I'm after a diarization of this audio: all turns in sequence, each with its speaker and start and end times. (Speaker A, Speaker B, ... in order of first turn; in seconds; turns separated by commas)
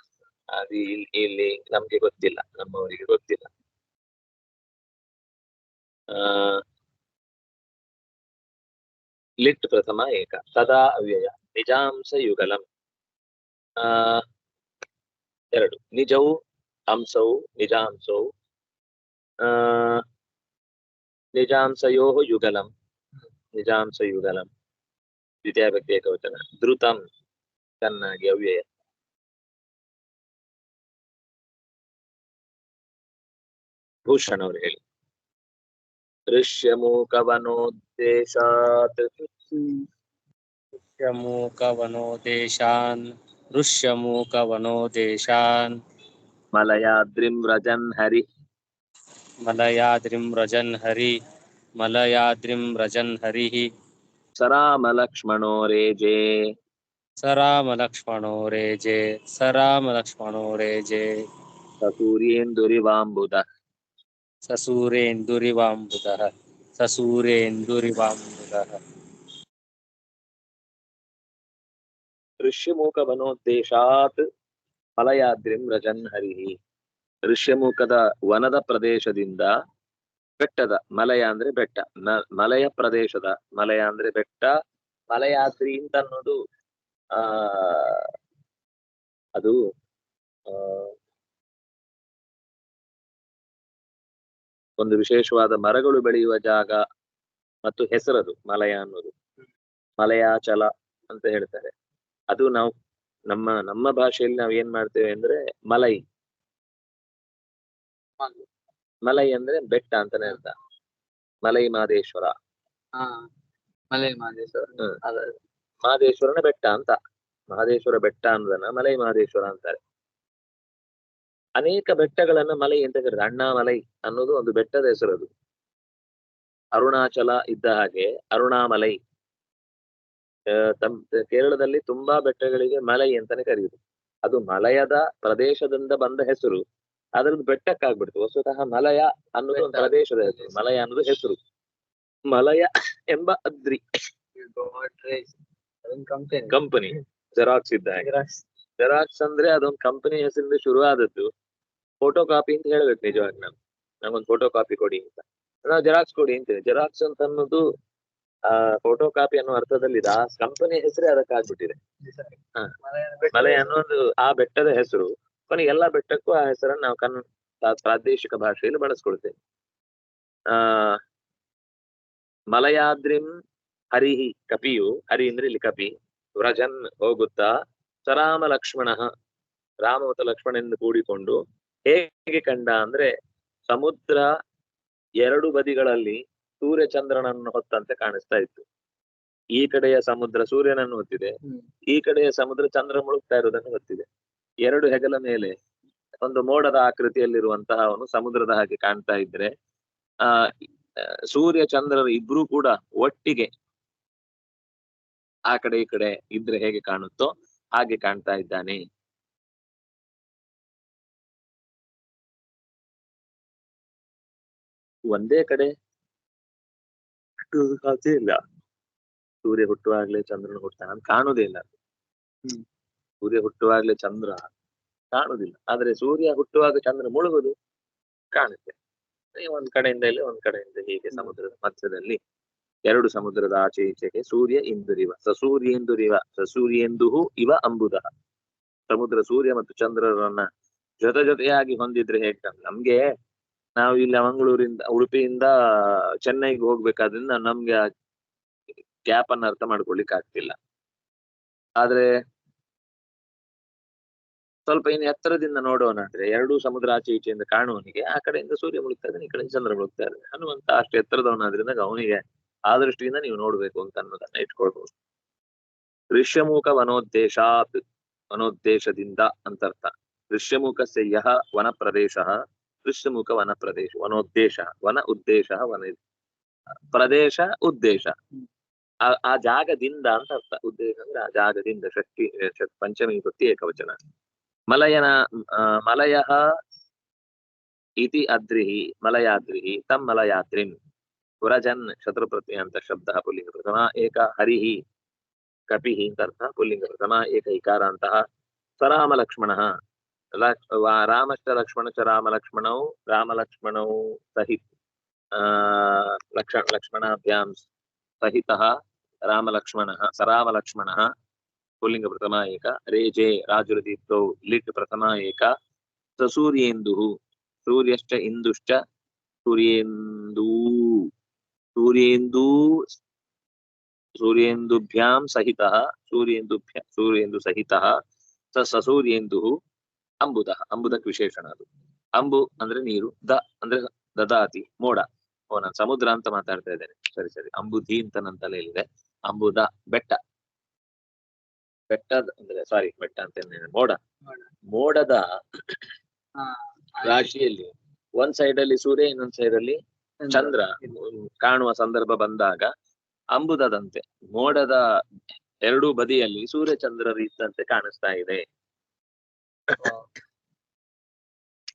Speaker A: 0.5-3.5, Speaker A: 6.1-6.6, Speaker A: 9.4-12.6, Speaker A: 13.8-14.2, Speaker A: 15.5-16.4, Speaker A: 16.9-18.3, Speaker A: 19.4-20.0, Speaker A: 21.4-22.7, Speaker A: 23.6-24.5, Speaker A: 25.4-27.0, Speaker A: 27.8-28.6, Speaker A: 34.1-34.8, Speaker A: 36.3-39.1, Speaker B: 39.5-39.9, Speaker C: 40.9-45.8, Speaker A: 46.5-48.2, Speaker C: 49.5-51.1, Speaker C: 51.8-53.7, Speaker A: 54.4-56.5, Speaker C: 57.2-61.2, Speaker A: 61.8-63.4, Speaker C: 64.5-68.8, Speaker A: 72.4-74.3, Speaker A: 75.0-76.6, Speaker A: 77.3-79.5, Speaker A: 80.4-84.5, Speaker A: 85.1-86.4, Speaker A: 87.2-88.1, Speaker A: 90.5-90.9, Speaker A: 94.8-96.8, Speaker A: 97.7-99.1, Speaker A: 100.0-101.7, Speaker A: 102.3-102.7, Speaker A: 103.3-106.0, Speaker B: 108.2-108.5, Speaker A: 109.1-110.5, Speaker A: 111.4-112.3, Speaker B: 113.0-113.3, Speaker B: 113.9-115.3, Speaker A: 115.8-117.0, Speaker A: 117.5-119.8, Speaker A: 121.6-125.3, Speaker A: 126.8-129.0, Speaker A: 130.5-136.6, Speaker A: 137.2-141.4, Speaker B: 139.6-140.5, Speaker A: 142.3-143.8, Speaker B: 144.4-145.3, Speaker B: 145.8-146.6, Speaker A: 146.5-148.1, Speaker B: 148.0-148.4, Speaker A: 148.8-151.3, Speaker A: 152.0-157.7, Speaker A: 158.5-161.8, Speaker B: 162.8-163.8, Speaker A: 163.3-169.3, Speaker A: 170.5-171.0, Speaker A: 172.5-173.3, Speaker A: 173.9-177.5, Speaker A: 178.1-179.1, Speaker A: 179.8-183.1, Speaker A: 183.7-184.3, Speaker A: 185.2-188.7, Speaker A: 189.6-191.3, Speaker A: 191.9-194.1, Speaker A: 194.7-195.6, Speaker A: 196.2-199.5, Speaker A: 200.2-203.5, Speaker A: 205.5-208.8, Speaker A: 215.1-215.7, Speaker A: 217.5-218.4, Speaker A: 219.4-221.7, Speaker A: 223.2-224.5, Speaker A: 225.1-227.6, Speaker A: 228.3-228.8, Speaker A: 229.4-232.2, Speaker A: 232.9-238.1, Speaker A: 238.9-240.5, Speaker A: 241.0-243.0, Speaker A: 243.8-247.9, Speaker A: 249.1-250.6, Speaker A: 251.8-252.2, Speaker A: 254.7-264.9, Speaker A: 266.1-276.0, Speaker A: 276.9-278.2, Speaker A: 279.0-284.0, Speaker A: 284.7-286.4, Speaker A: 288.0-290.8, Speaker A: 291.4-294.8, Speaker A: 295.7-298.2, Speaker A: 298.8-299.7, Speaker A: 300.3-304.6, Speaker A: 305.4-307.6, Speaker A: 308.2-311.1, Speaker A: 311.8-315.5, Speaker A: 316.2-317.1, Speaker A: 317.7-318.8, Speaker A: 319.4-321.1, Speaker A: 321.8-322.9, Speaker A: 324.2-328.0, Speaker A: 328.6-329.6, Speaker A: 330.2-340.2, Speaker A: 341.9-344.0, Speaker A: 344.7-345.8, Speaker B: 346.4-347.2, Speaker A: 347.0-349.8, Speaker B: 350.2-350.5, Speaker A: 350.3-352.7, Speaker A: 353.3-354.8, Speaker A: 355.6-358.4